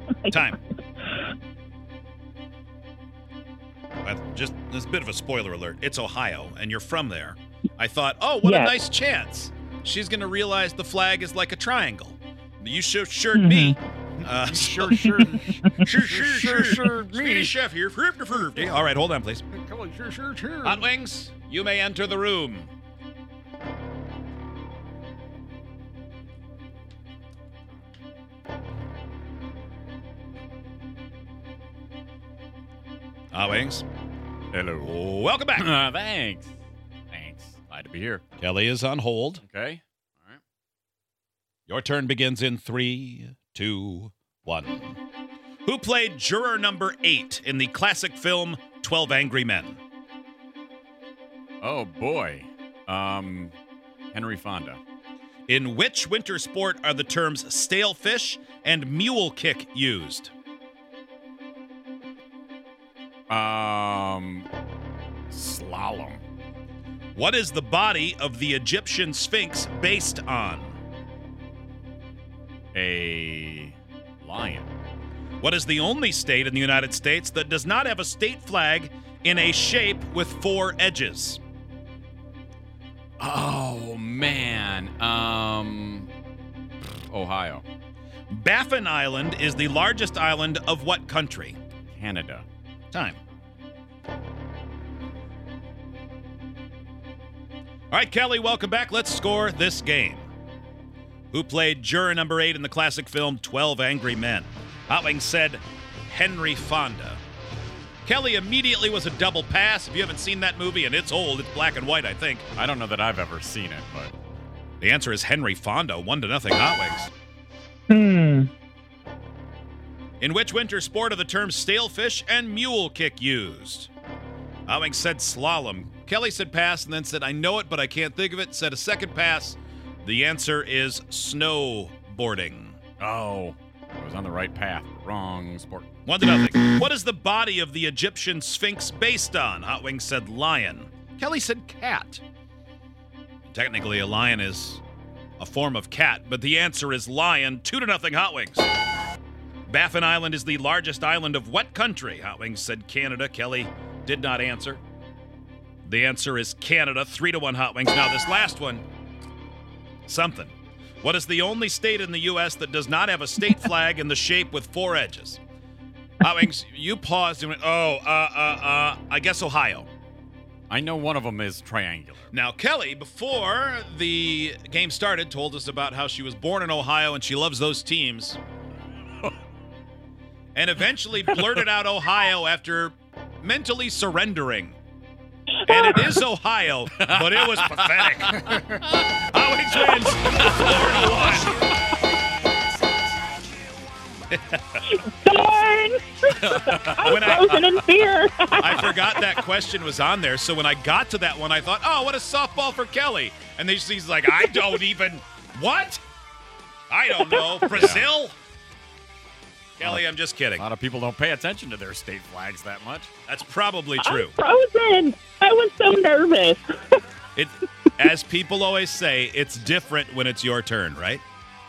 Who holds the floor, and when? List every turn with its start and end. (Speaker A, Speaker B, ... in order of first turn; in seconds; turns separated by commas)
Speaker A: 0.3-0.6, Speaker A: 4.0-15.2, Speaker B: 8.4-8.7, Speaker B: 13.3-13.8, Speaker C: 14.2-17.6, Speaker A: 15.8-19.4, Speaker C: 19.5-20.9, Speaker A: 20.6-22.7, Speaker A: 33.3-33.9, Speaker D: 34.5-34.9, Speaker A: 34.8-35.7, Speaker D: 35.5-36.5, Speaker D: 37.1-38.2, Speaker A: 38.4-39.4, Speaker D: 39.4-40.4, Speaker A: 41.7-45.0, Speaker A: 45.6-49.8, Speaker D: 51.6-53.5, Speaker D: 54.1-54.8, Speaker A: 55.5-60.3, Speaker D: 63.3-64.5, Speaker D: 65.3-66.2, Speaker A: 67.2-70.8, Speaker D: 72.7-74.7, Speaker A: 75.4-81.4, Speaker D: 83.2-86.1, Speaker D: 86.8-87.6, Speaker A: 88.3-91.6, Speaker D: 91.9-92.5, Speaker A: 92.9-93.2, Speaker A: 97.9-100.3, Speaker A: 101.3-107.2, Speaker A: 108.0-112.5, Speaker D: 112.6-114.1, Speaker A: 114.8-117.1, Speaker B: 117.9-118.5, Speaker A: 120.2-123.9, Speaker A: 124.7-132.8, Speaker D: 133.0-135.9, Speaker A: 136.1-142.2, Speaker A: 143.5-144.8, Speaker A: 145.4-148.7, Speaker A: 149.7-154.8, Speaker A: 155.9-158.8, Speaker A: 160.1-165.4, Speaker A: 166.2-169.9, Speaker D: 170.7-172.3, Speaker A: 172.3-178.4, Speaker A: 180.6-184.8, Speaker A: 185.7-191.6, Speaker D: 187.0-187.9, Speaker A: 194.3-194.8, Speaker B: 194.9-199.0, Speaker D: 196.4-197.3, Speaker A: 197.1-197.5, Speaker A: 198.6-206.0, Speaker A: 206.9-208.4, Speaker B: 207.2-207.4, Speaker D: 207.7-208.1, Speaker A: 209.8-210.6, Speaker D: 210.6-213.1, Speaker A: 213.3-214.3, Speaker B: 214.0-216.6, Speaker A: 217.4-221.2